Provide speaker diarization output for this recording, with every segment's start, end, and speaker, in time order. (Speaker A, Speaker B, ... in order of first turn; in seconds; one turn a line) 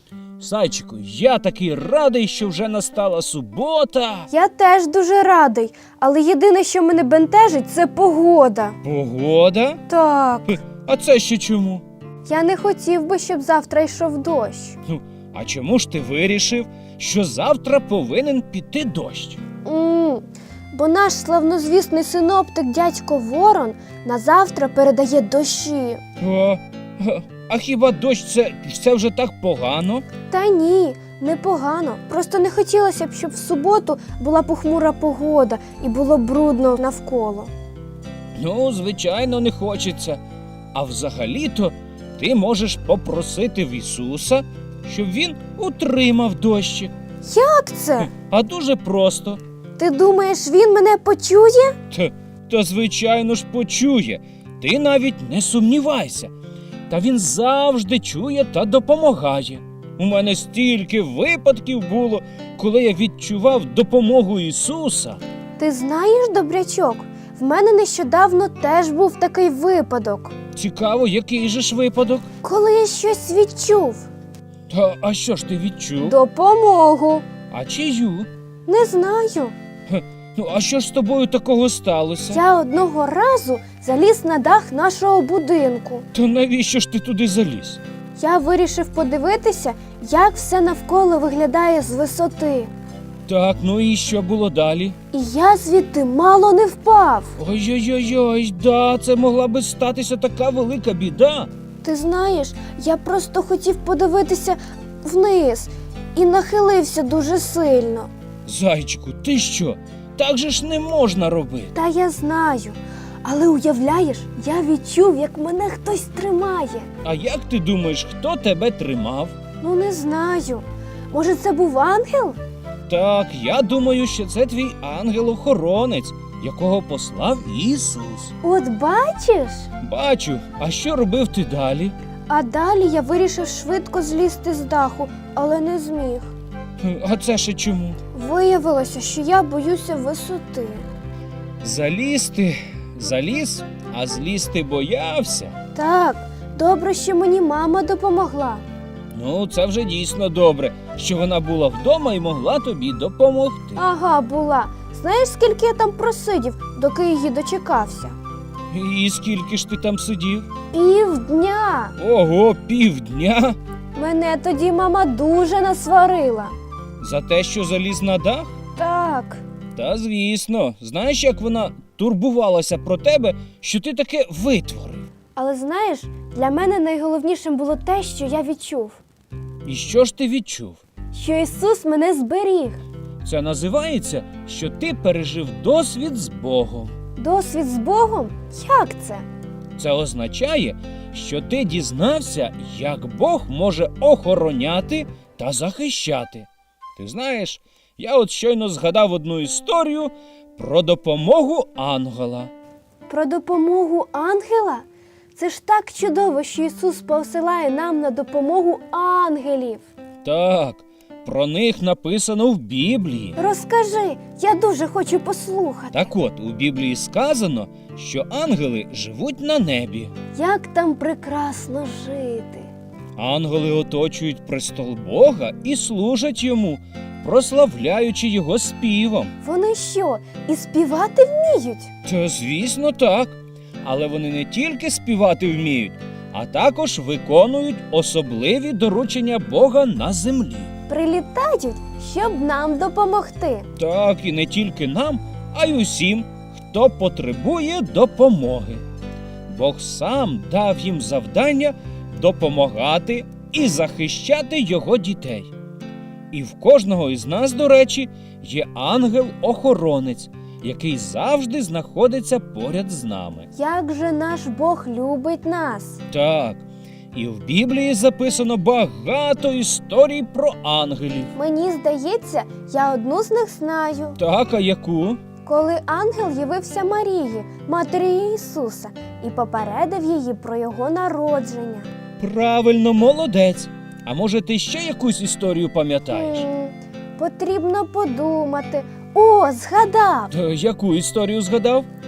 Speaker A: 0.4-4.3
Speaker B: 4.3-8.8
Speaker A: 8.8-9.8
Speaker B: 9.9-10.6
Speaker A: 10.6-11.8
Speaker B: 12.3-14.8
Speaker A: 14.9-19.4
Speaker B: 19.6-26.0
Speaker A: 26.2-30.1
Speaker B: 30.3-37.5
Speaker A: 38.4-40.2
Speaker A: 40.7-46.9
Speaker B: 47.2-48.1
Speaker A: 48.0-49.4
Speaker B: 49.8-51.8
Speaker A: 51.9-56.3
Speaker A: 56.9-65.2
Speaker B: 65.6-70.3
Speaker A: 70.5-72.3
Speaker B: 72.4-74.1
Speaker A: 74.7-76.2
Speaker B: 76.0-77.2
Speaker A: 77.5-78.3
Speaker B: 78.7-79.5
Speaker A: 79.9-82.4
Speaker B: 82.3-86.0
Speaker A: 86.1-87.8
Speaker B: 88.2-92.7
Speaker A: 93.3-95.0
Speaker B: 95.1-97.3
Speaker A: 97.4-101.5
Speaker B: 101.8-108.1
Speaker A: 108.5-111.7
Speaker B: 111.7-116.9
Speaker A: 117.0-119.3
Speaker B: 119.6-122.4
Speaker A: 122.9-128.3
Speaker B: 128.4-129.7
Speaker A: 129.8-131.9
Speaker B: 132.3-136.3
Speaker A: 136.8-138.0
Speaker B: 138.1-140.9
Speaker A: 141.6-145.6
Speaker B: 145.7-148.6
Speaker A: 149.1-153.8
Speaker B: 153.8-158.2
Speaker A: 158.7-160.5
Speaker B: 160.7-161.9
Speaker A: 162.0-163.6
Speaker B: 163.9-166.5
Speaker A: 167.0-168.5
Speaker B: 168.8-169.4
Speaker A: 169.8-175.1
Speaker B: 175.4-179.0
Speaker A: 179.7-180.8
Speaker B: 181.1-182.8
Speaker A: 183.2-186.9
Speaker B: 187.2-189.3
Speaker A: 189.8-202.5
Speaker B: 203.1-204.8
Speaker B: 205.4-209.8
Speaker A: 210.2-213.4
Speaker B: 213.4-216.1
Speaker A: 215.9-220.1
Speaker B: 220.3-222.7
Speaker A: 223.2-229.3
Speaker B: 229.4-231.9
Speaker A: 232.1-240.7
Speaker B: 240.9-243.7
Speaker A: 243.8-248.8
Speaker A: 249.5-255.5
Speaker A: 256.3-263.5
Speaker B: 263.6-266.0
Speaker A: 266.1-271.3
Speaker B: 271.4-274.2
Speaker A: 274.2-275.2
Speaker B: 275.4-281.9
Speaker A: 282.2-286.5
Speaker B: 286.1-290.3
Speaker A: 290.3-291.9